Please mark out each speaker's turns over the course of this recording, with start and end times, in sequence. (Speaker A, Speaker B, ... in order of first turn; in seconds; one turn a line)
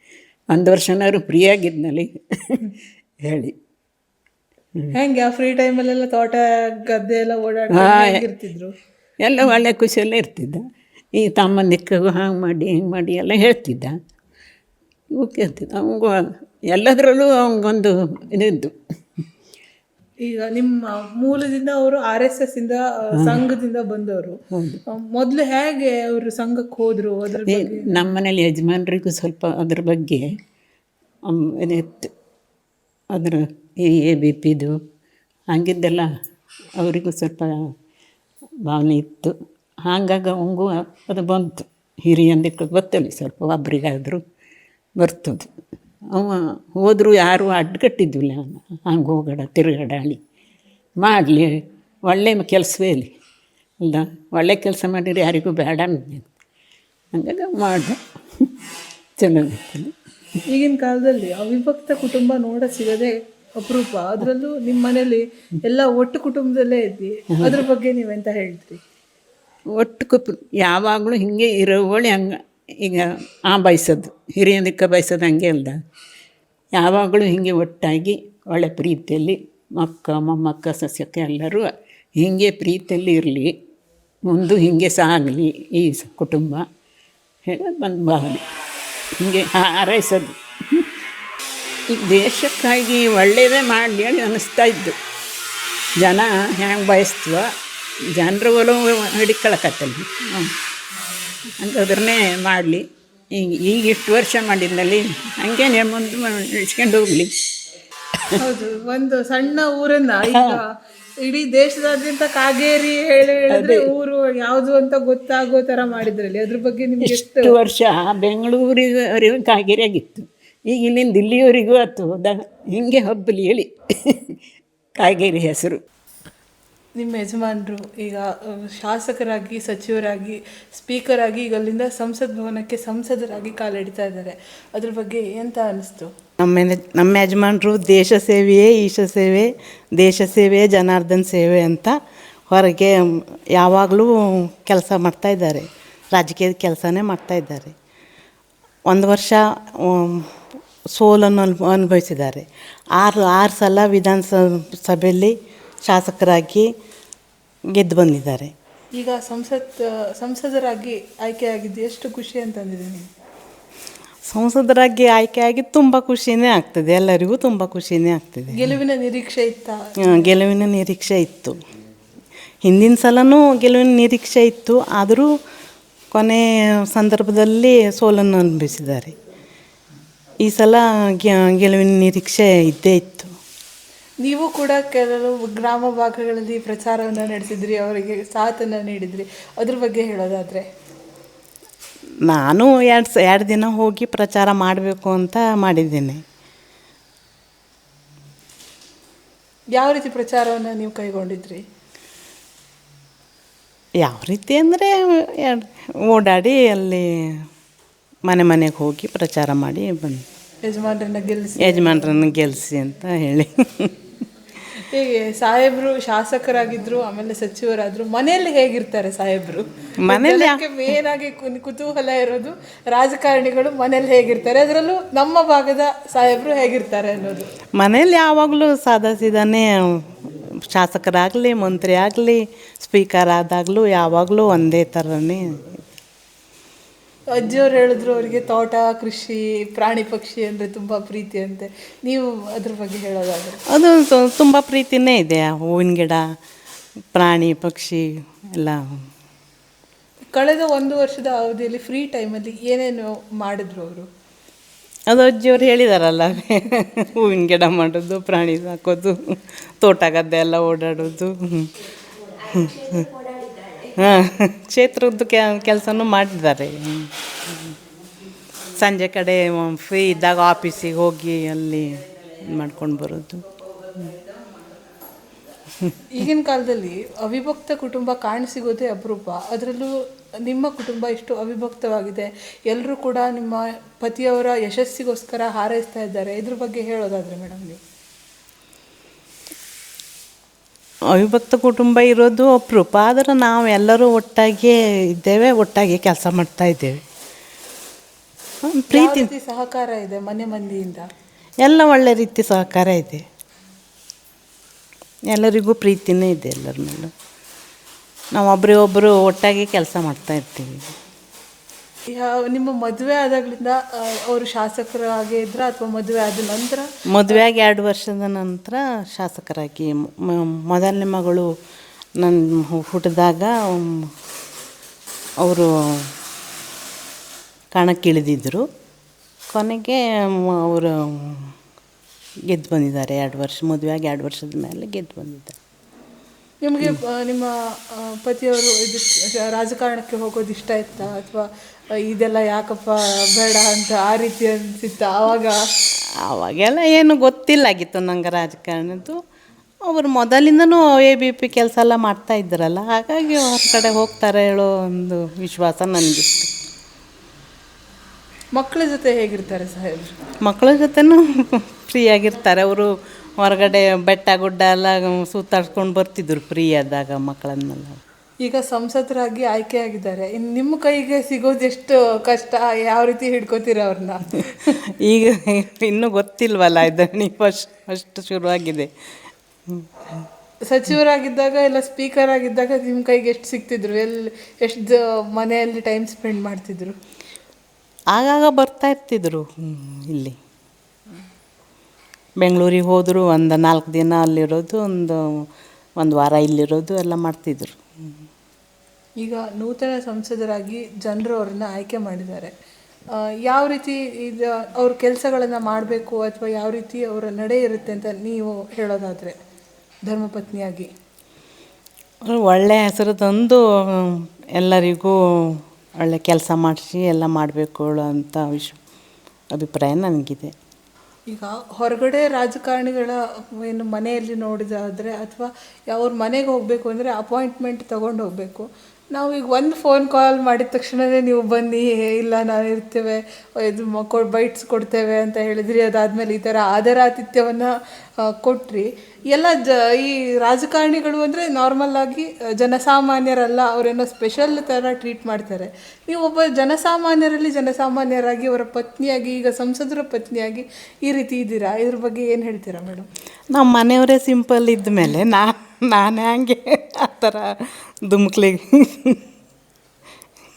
Speaker A: 0.5-2.7
Speaker A: 3.3-3.5
Speaker B: 4.9-8.7
Speaker A: 7.8-8.2
Speaker A: 9.2-10.6
Speaker A: 11.2-13.9
Speaker A: 15.2-16.2
Speaker A: 16.7-18.8
Speaker B: 20.2-28.1
Speaker A: 23.2-23.4
Speaker A: 24.5-24.8
Speaker A: 27.5-30.3
Speaker A: 31.3-32.1
Speaker A: 33.1-34.8
Speaker A: 35.5-36.1
Speaker A: 36.8-37.5
Speaker A: 38.7-39.3
Speaker A: 39.9-44.2
Speaker A: 45.0-45.5
Speaker A: 46.1-50.2
Speaker A: 51.0-51.5
Speaker A: 52.1-53.1
Speaker A: 53.8-56.3
Speaker A: 57.1-58.5
Speaker A: 59.2-59.9
Speaker B: 60.5-68.8
Speaker A: 69.8-75.8
Speaker A: 76.8-81.7
Speaker A: 82.2-83.5
Speaker A: 84.3-86.6
Speaker A: 87.5-88.4
Speaker A: 89.2-90.9
Speaker A: 91.9-95.0
Speaker A: 96.0-97.5
Speaker A: 98.2-100.5
Speaker A: 101.6-102.8
Speaker A: 103.4-107.3
Speaker B: 108.4-110.7
Speaker A: 110.3-110.6
Speaker B: 111.2-117.5
Speaker A: 113.5-113.9
Speaker A: 117.0-124.4
Speaker A: 125.0-125.8
Speaker B: 127.0-136.1
Speaker C: 136.4-142.0
Speaker C: 142.5-147.8
Speaker C: 148.9-150.3
Speaker C: 150.9-155.3
Speaker C: 155.9-156.7
Speaker C: 157.8-158.5
Speaker B: 159.0-163.1
Speaker C: 164.3-168.7
Speaker B: 168.5-170.3
Speaker C: 170.0-171.6
Speaker C: 172.7-175.3
Speaker C: 176.1-179.1
Speaker C: 180.4-183.3
Speaker B: 184.2-190.7
Speaker C: 192.3-196.2
Speaker B: 199.8-201.6
Speaker C: 204.0-207.4
Speaker C: 208.3-210.2
Speaker B: 210.7-212.2
Speaker C: 211.6-213.9
Speaker B: 214.8-227.5
Speaker C: 220.0-220.6
Speaker C: 227.8-235.7
Speaker B: 237.3-243.6
Speaker C: 243.7-246.2
Speaker C: 247.1-249.0
Speaker B: 250.3-254.1
Speaker C: 255.1-261.7
Speaker C: 262.5-263.1
Speaker C: 263.9-267.7
Speaker C: 268.8-273.5
Speaker B: 276.1-287.8
Speaker C: 291.1-297.0
Speaker C: 298.7-299.3
Speaker B: 298.9-301.1
Speaker C: 301.6-303.2
Speaker C: 305.3-307.1
Speaker C: 308.4-310.9
Speaker B: 312.1-317.4
Speaker C: 317.1-321.5
Speaker C: 322.2-324.1
Speaker C: 325.4-326.1
Speaker C: 327.8-328.6
Speaker C: 329.5-331.5
Speaker C: 332.5-335.6
Speaker B: 336.6-341.5
Speaker B: 342.1-345.6
Speaker C: 346.3-349.2
Speaker C: 349.9-356.5
Speaker B: 358.6-360.2
Speaker C: 360.4-368.0
Speaker B: 368.4-374.5
Speaker C: 375.0-378.9
Speaker B: 380.7-387.0
Speaker C: 388.1-390.4
Speaker C: 392.4-395.2
Speaker C: 396.0-397.8
Speaker B: 399.2-402.5
Speaker B: 403.4-409.4
Speaker B: 410.1-410.9
Speaker C: 412.3-418.8
Speaker C: 419.5-420.5
Speaker B: 421.3-437.7
Speaker B: 438.3-453.1
Speaker C: 453.5-459.2